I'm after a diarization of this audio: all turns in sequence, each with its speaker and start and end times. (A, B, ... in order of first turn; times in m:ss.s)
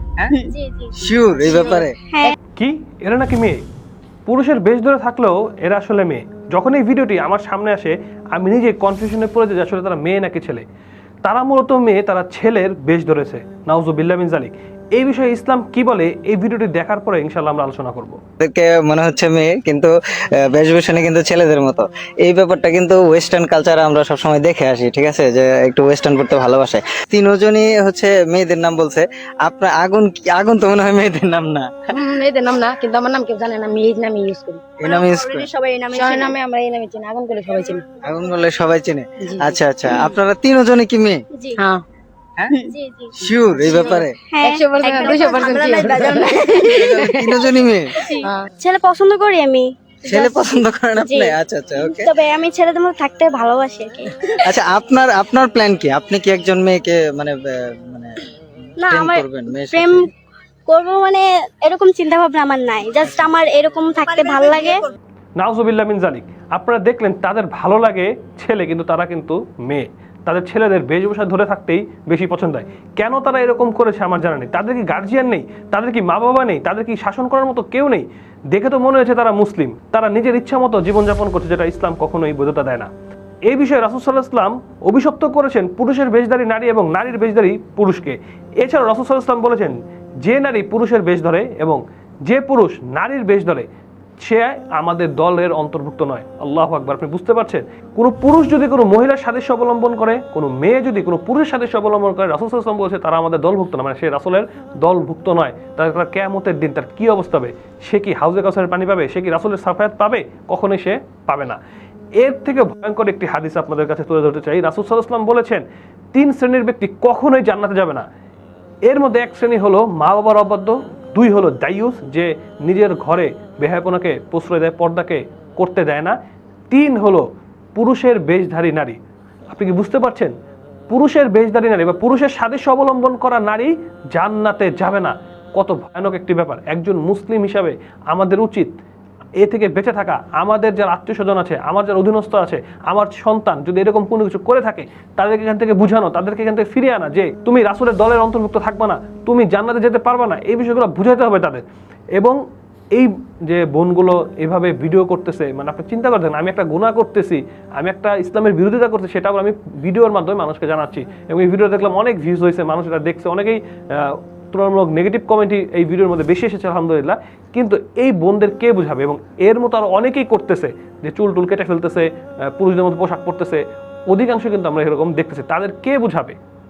0:00.3-0:02.3 A
0:01.0-0:02.0 B
0:02.6-0:03.6 C
0:04.3-0:10.6 C
0:11.2-0:18.2 C
0:18.4-0:19.9 B
0:20.4-0:31.7 B
0:31.9-0:34.6 D
0:34.8-0:35.5 B
0:34.8-0:36.3 A
0:35.9-0:37.8 D
0:38.0-0:41.2 B
0:39.2-0:39.6 D
0:42.5-0:43.1 A
0:43.2-0:44.1 B
0:43.6-0:47.4 D
0:43.6-0:47.0 A
0:46.6-0:47.9 B
0:47.9-0:54.4 A
0:50.1-0:52.1 B
0:54.4-0:57.4 B
0:57.9-0:58.2 B
0:58.8-1:00.0 A
0:58.9-1:00.1 B
1:00.7-1:04.8 A
1:05.4-1:22.9 C
1:23.5-1:33.6 C
1:34.2-1:51.6 C
1:52.2-1:55.6 C
1:56.1-1:58.0 C
1:58.9-2:06.2 C
2:06.7-2:07.2 C
2:07.8-2:09.0 C
2:09.5-2:10.3 C
2:10.9-2:18.7 C
2:19.4-2:31.6 C
2:32.9-2:56.4 C